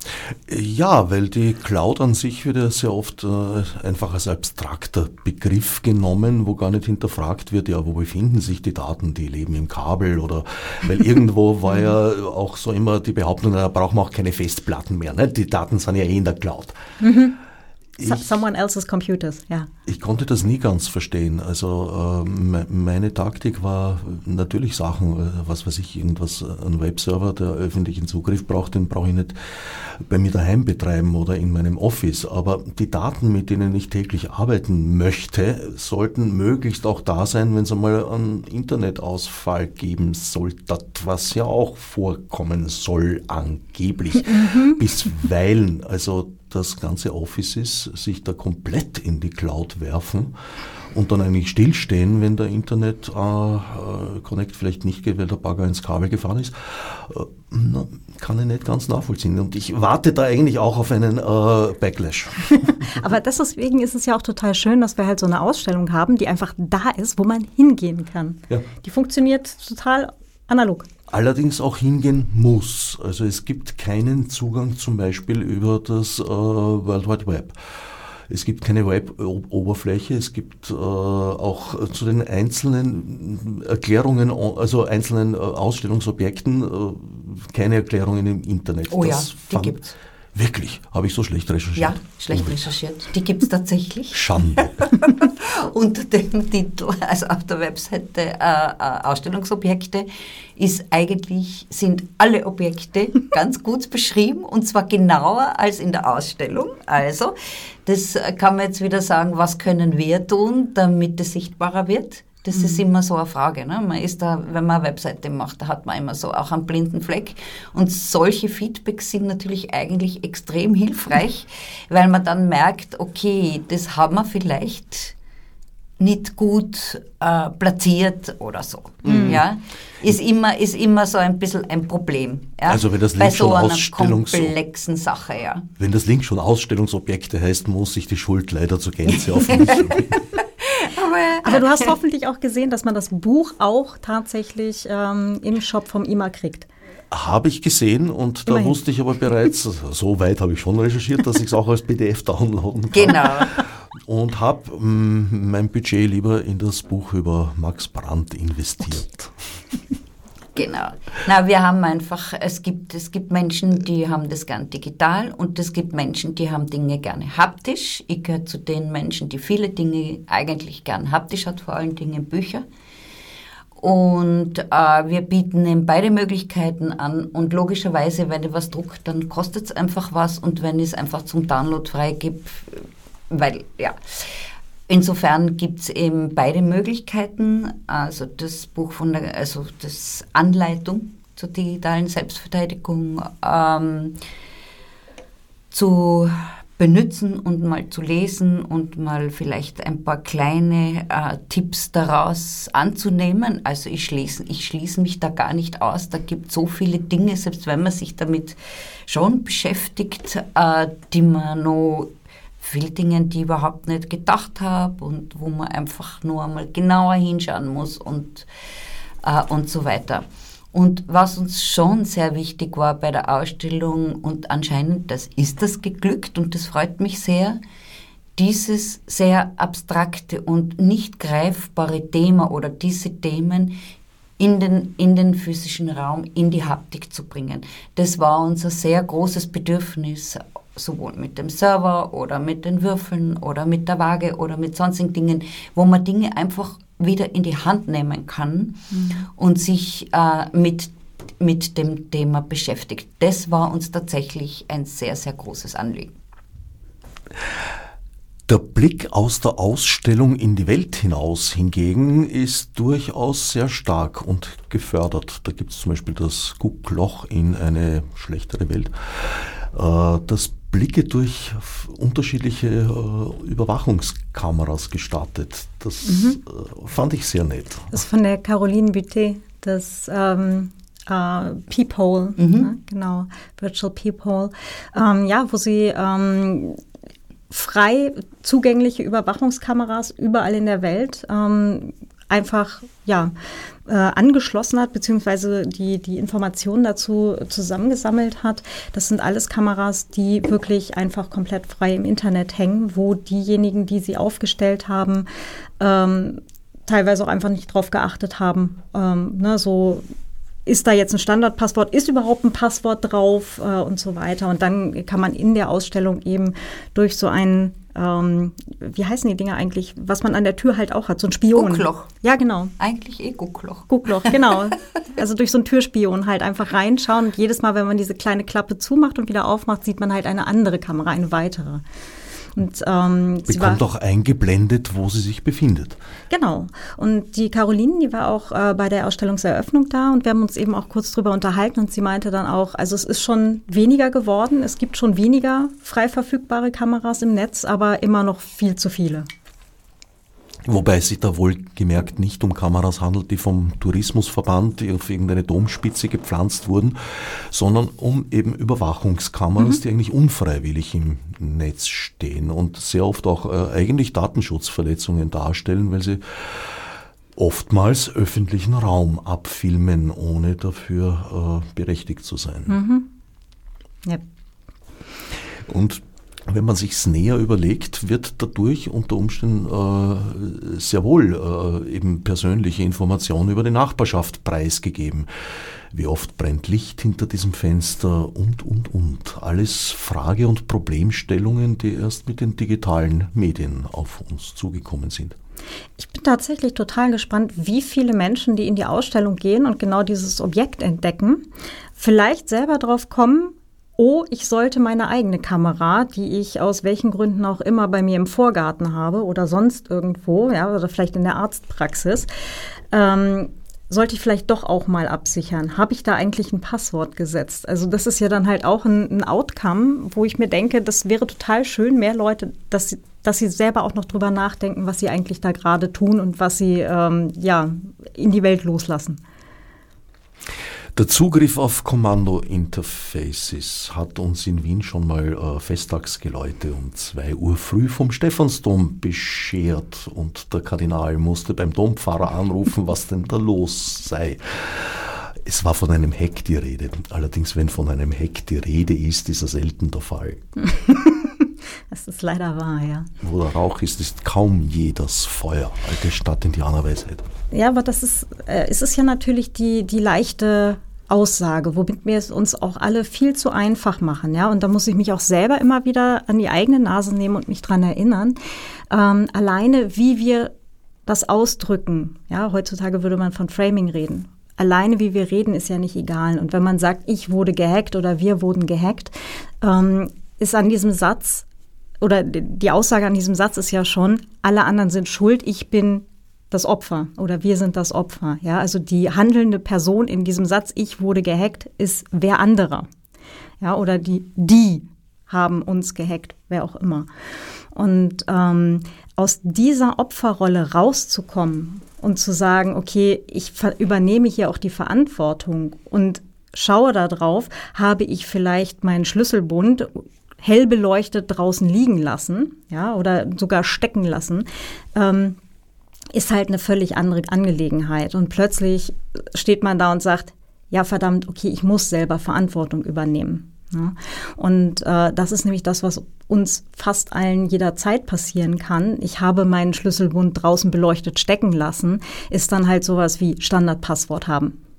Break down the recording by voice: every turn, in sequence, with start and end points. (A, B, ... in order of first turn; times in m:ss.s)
0:00.3-0:16.8 A
0:17.0-0:17.4 B
0:18.0-0:18.3 A
0:18.0-0:19.7 B
0:19.8-0:50.4 A
0:44.3-0:44.8 B
0:50.9-1:02.7 A
1:02.5-1:10.9 B
1:11.1-1:29.8 A
1:28.9-1:30.0 C
1:30.3-1:32.6 A
1:31.8-2:05.1 C
1:34.1-1:34.8 A
1:52.5-1:52.8 B
2:06.0-2:15.7 C
2:09.0-2:09.4 A
2:09.0-2:09.4 B
2:12.7-2:14.5 A
2:15.8-2:20.1 A
2:19.4-2:21.9 C
2:21.4-2:26.7 B
2:27.1-2:39.3 A
2:28.4-2:28.8 B
2:32.9-2:33.6 C
2:40.5-2:52.6 C
2:53.8-3:14.2 C
3:15.7-3:32.1 C
3:32.6-3:38.5 C
3:39.2-3:47.6 C
3:48.4-3:53.8 C
3:54.4-4:16.1 C
4:08.9-4:09.2 B
4:18.5-4:37.9 A
4:36.0-4:36.4 B
4:37.9-4:46.8 B
4:42.4-4:42.7 C
4:47.5-4:53.3 B
4:53.9-5:05.3 B
5:05.8-5:10.0 B
5:10.6-5:22.7 B
5:21.5-5:22.1 C
5:22.8-5:24.5 C
5:23.9-5:31.8 B
5:32.6-5:33.8 B
5:33.5-5:36.0 A
5:36.3-5:49.3 B
5:50.6-6:12.8 A
6:12.7-6:13.1 B
6:15.6-6:25.3 A
6:25.9-6:35.3 A
6:36.0-6:41.4 B
6:42.0-6:52.3 B
6:52.9-7:09.2 B
7:10.9-7:30.4 A
7:30.6-7:33.1 B
7:33.2-7:37.2 A
7:37.5-7:48.4 B
7:48.9-7:50.5 B
7:51.1-8:01.4 B
8:02.0-8:12.9 B
8:13.6-8:17.1 B
8:17.7-8:35.4 B
8:36.1-8:54.6 B